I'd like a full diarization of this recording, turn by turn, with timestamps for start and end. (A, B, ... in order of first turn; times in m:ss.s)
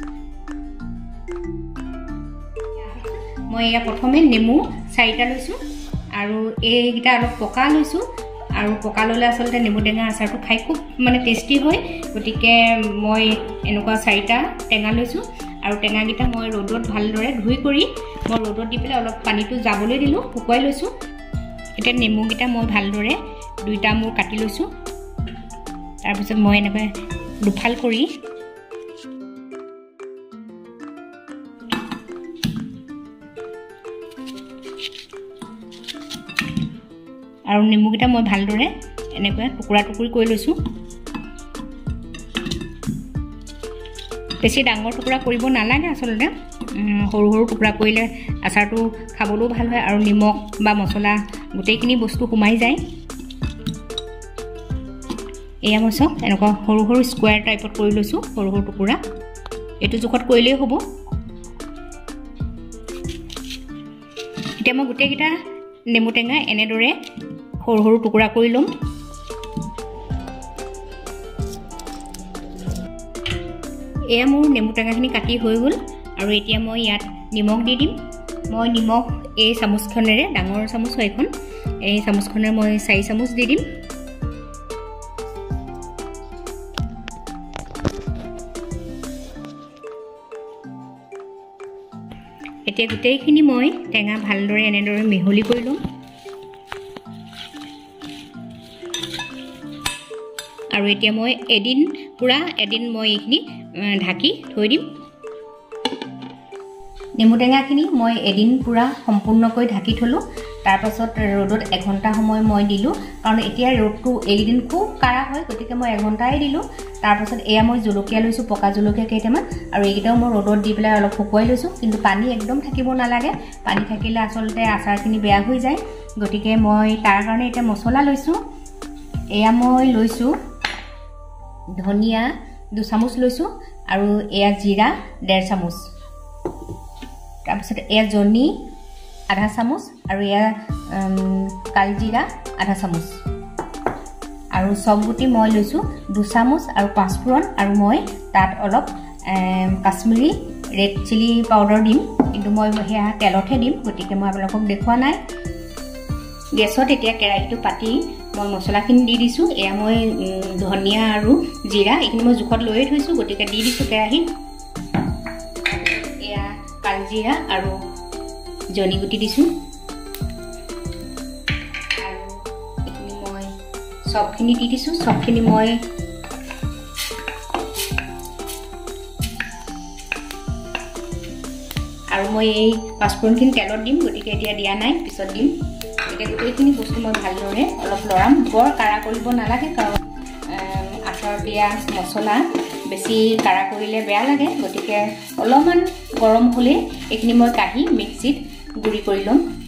0:02.8-0:05.6 A
0:06.1-0:08.0 A
0:08.6-0:20.9 A
0:21.8-0:24.7 A
0:26.0-0:28.1 A
0:37.5-0:40.6 A
0:44.4-0:52.8 A
0:55.6-0:59.0 A
0:59.8-1:00.8 A
1:04.6-1:05.4 A
1:05.9-1:06.9 A
1:07.6-1:08.7 A
1:14.1-1:23.6 A
1:32.6-1:35.8 A
1:40.7-1:44.9 A
1:47.2-2:08.4 A
2:09.3-2:10.4 A
2:11.7-2:15.9 A
2:17.4-2:18.6 A
2:19.3-2:23.2 A
2:24.5-2:35.2 A
2:36.5-2:44.3 A
2:45.6-2:47.8 A
2:48.7-2:49.5 A
2:52.0-2:53.5 A
2:54.0-2:55.8 A
3:02.1-3:19.4 A